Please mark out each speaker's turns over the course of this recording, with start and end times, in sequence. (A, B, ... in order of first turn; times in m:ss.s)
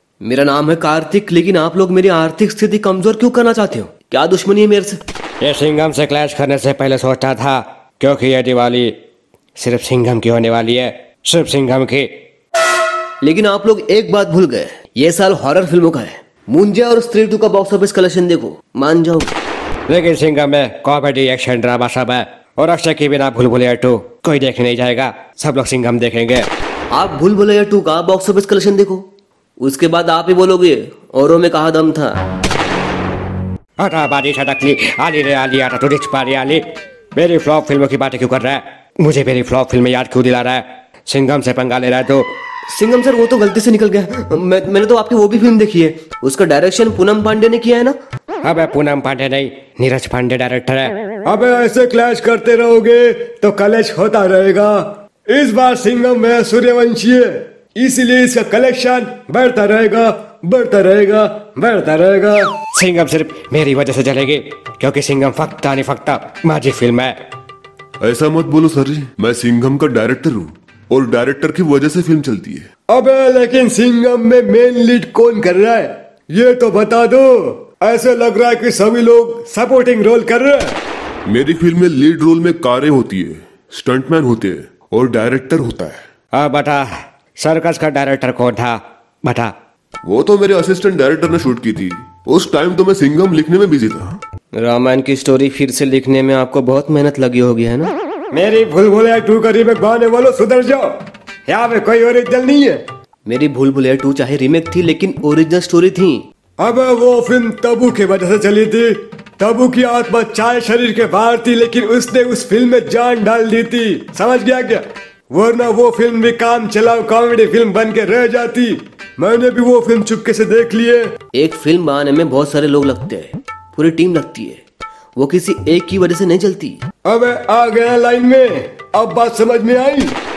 0:00.2-0:05.0 A
0:05.4-0:08.9 B
0:09.6-0:12.1 B
0:13.2-0:19.3 A
0:19.9-0:26.5 B
0:26.9-0:29.0 A
0:29.6-0:32.2 A
0:33.8-0:36.6 B
0:37.2-0:42.2 B
0:42.7-0:48.0 A
0:48.4-0:50.9 B
0:51.2-1:02.5 C
1:02.8-1:07.2 B
1:08.0-1:12.7 D
1:12.9-1:20.8 C
1:21.3-1:26.0 D
1:26.3-1:29.5 B
1:30.0-1:34.2 D
1:34.5-1:37.9 A
1:38.3-1:42.8 C
1:43.3-1:46.3 A
1:46.6-2:01.1 C
2:01.3-2:04.6 A
2:05.2-2:06.8 A
2:07.0-2:10.2 C